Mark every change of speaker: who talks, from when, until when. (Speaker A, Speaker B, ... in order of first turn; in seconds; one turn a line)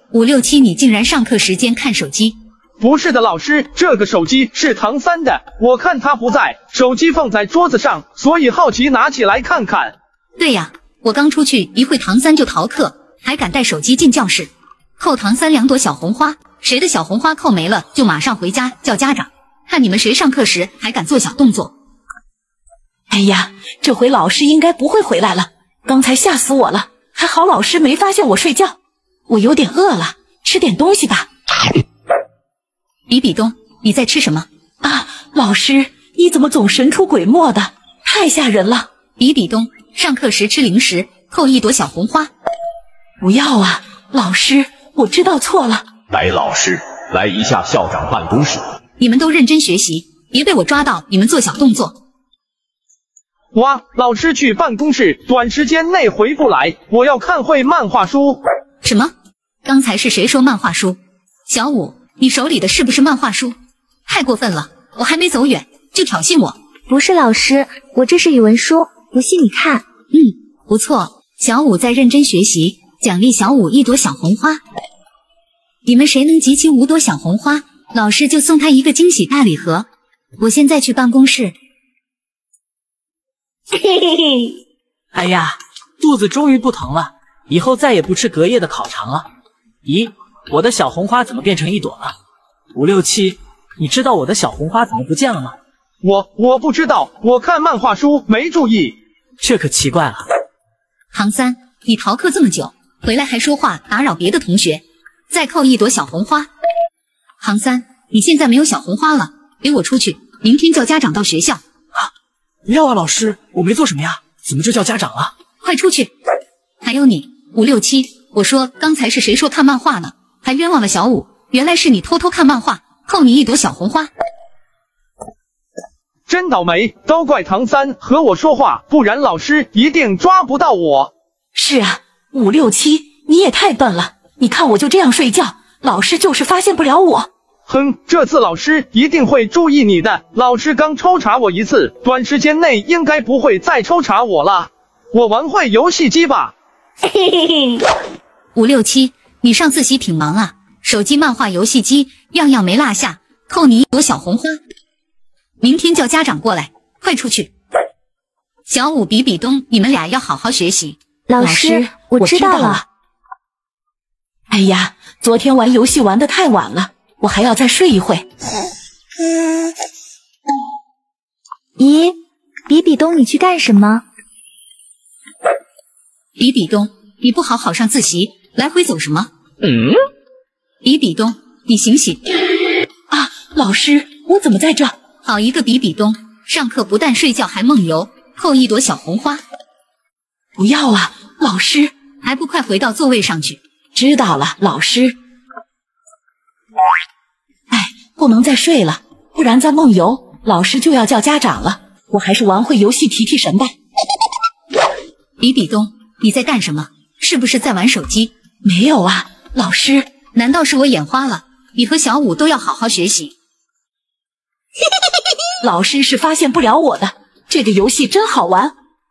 Speaker A: 0.1-2.4
Speaker B: 2.8-9.9
Speaker A: 10.4-21.7
Speaker C: 23.1-28.8
Speaker C: 29.3-31.3
Speaker A: 33.1-34.5
Speaker C: 34.8-38.9
Speaker A: 39.2-42.3
Speaker C: 43.2-45.9
Speaker D: 46.1-48.5
Speaker A: 49.0-52.0
Speaker B: 53.5-58.4
Speaker A: 58.8-59.1
Speaker A: 59.6-63.5
Speaker A: 64.0-66.6
Speaker E: 66.9-69.8
Speaker A: 70.1-74.6
Speaker A: 75.8-79.9
Speaker A: 80.4-81.5
Speaker F: 85.1-89.3
Speaker F: 89.8-92.1
Speaker F: 92.7-95.5
Speaker B: 96.0-99.0
Speaker F: 99.4-100.2
Speaker A: 101.1-106.5
Speaker A: 107.4-111.6
Speaker F: 112.6-115.3
Speaker A: 115.6-116.1
Speaker A: 116.8-124.1
Speaker B: 126.3-131.1
Speaker C: 131.5-137.3
Speaker B: 137.7-146.5
Speaker A: 148.5-154.6
Speaker A: 155.6-157.5
Speaker A: 158.7-161.0
Speaker E: 161.3-162.8
Speaker C: 161.4-162.8
Speaker C: 164.5-168.2
Speaker E: 171.8-172.2
Speaker E: 172.7-174.0
Speaker A: 176.4-179.3
Speaker A: 180.8-182.2
Speaker C: 183.1-184.9
Speaker A: 185.2-189.4
Speaker C: 190.6-191.9
Speaker A: 192.2-193.6
Speaker C: 193.9-195.2
Speaker C: 197.7-203.7
Speaker A: 205.4-208.3
Speaker C: 208.6-210.1
Speaker A: 210.3-213.3
Speaker C: 215.6-218.7